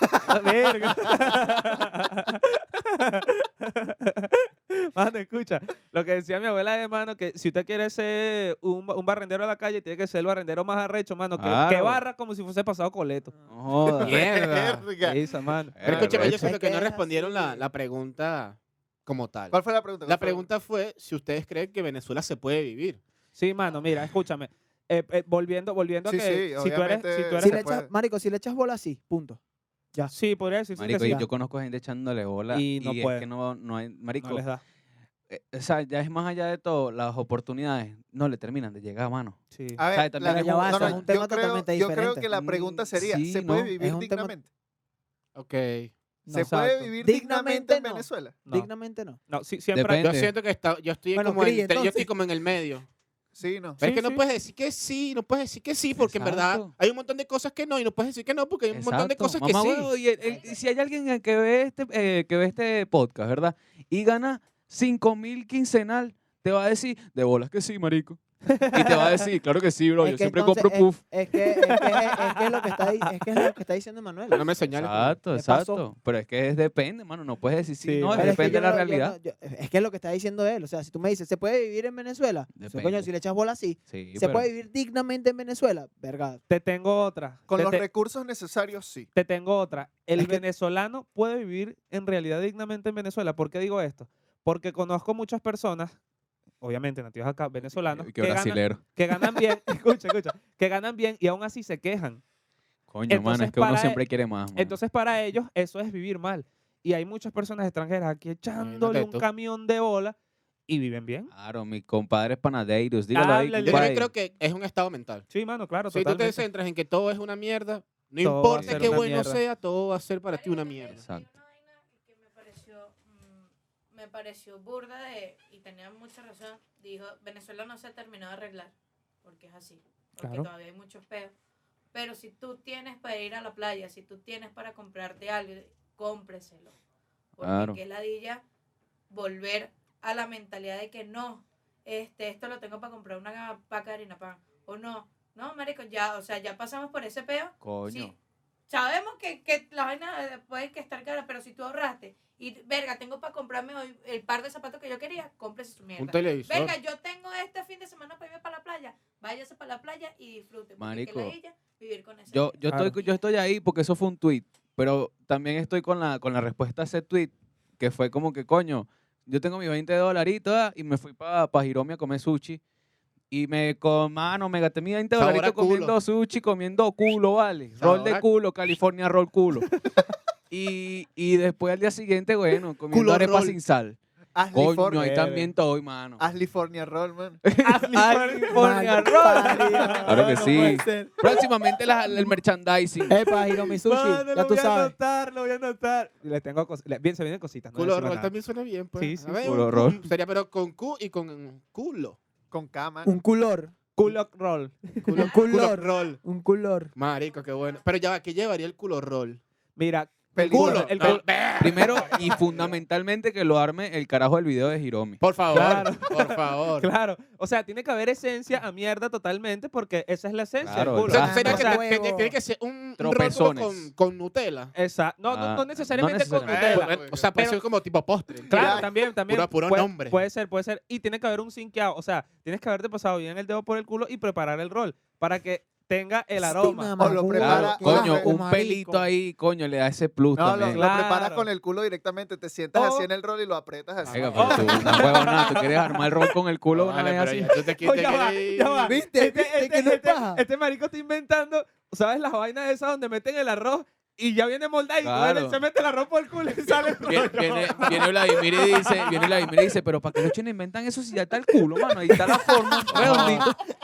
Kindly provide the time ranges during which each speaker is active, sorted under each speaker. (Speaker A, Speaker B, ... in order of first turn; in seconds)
Speaker A: 0.2-13.3, 15.0-16.2, 23.4-27.7, 30.1-31.2, 32.5-33.3, 34.2-34.6, 39.5-39.9, 46.3-46.9, 49.3-50.0, 53.8-54.2, 68.5-69.2, 71.5-73.5, 77.8-78.6, 86.5-87.8, 89.2-96.0, 96.6-102.2, 103.1-104.0, 104.5-110.2, 110.7-111.3, 113.1-114.0, 115.3-116.4, 118.2-119.4, 130.2-130.5, 185.0-185.5, 187.6-190.6, 193.3-198.3, 199.0-199.4, 204.0-205.1, 209.8-211.3, 215.5-221.8, 224.7-227.6, 228.5-237.1, 240.8-241.5, 242.7-243.1, 244.3-246.3, 247.7-259.7, 262.1-263.6
Speaker B: 11.4-12.0, 13.5-14.3, 15.7-16.5, 30.8-34.5, 35.3-41.0, 43.0-43.7, 49.7-50.3, 56.0-56.7, 58.7-71.0, 74.7-79.2, 82.5-83.1, 83.9-84.5, 97.7-98.9, 102.9-104.8, 111.3-114.1, 118.5-119.0, 120.9-121.3, 137.4-137.8, 147.6-148.2, 160.8-161.3, 162.3-172.6, 173.3-179.7, 180.5-184.0, 184.5-186.2, 187.4-193.2, 199.4-200.0, 211.6-215.3, 220.6-221.7, 223.0-223.9, 225.3-226.8, 237.4-240.9, 244.1-247.6, 255.0-255.6, 256.7-263.5
Speaker C: 14.0-15.2, 19.5-20.5, 26.1-27.9, 39.8-44.5, 46.3-48.4, 53.4-53.8, 87.5-89.1, 184.3-185.2, 186.2-187.4, 190.1-190.9, 202.5-203.1, 210.3-211.2, 226.4-227.3, 228.5-228.9, 236.4-238.3, 240.3-245.1
Speaker D: 14.0-14.9, 15.8-23.0, 45.4-45.9, 50.0-52.9, 53.8-59.9, 74.3-75.2, 108.6-109.3, 113.7-115.3, 115.9-121.0, 156.0-156.7, 175.2-175.9, 177.8-178.2, 182.9-183.6, 197.8-202.2, 205.1-206.2, 207.0-209.4, 210.5-212.6, 215.2-216.9, 221.1-224.7, 226.6-230.2, 244.1-244.4, 246.7-249.0, 262.9-263.4
Speaker E: 16.2-17.6, 27.4-29.4, 31.0-31.3, 40.2-42.8, 43.8-44.3, 47.0-49.2, 51.1-52.1, 70.0-74.5, 75.3-75.8, 78.2-86.4, 90.2-90.4, 188.5-191.1, 193.1-195.0, 203.1-203.7, 205.1-206.9, 221.1-222.4, 236.4-239.1, 248.8-250.4
Speaker F: 60.2-60.7, 120.3-131.3, 131.9-136.8, 137.4-138.4, 139.1-148.1, 148.7-163.2, 205.4-206.1, 207.3-207.8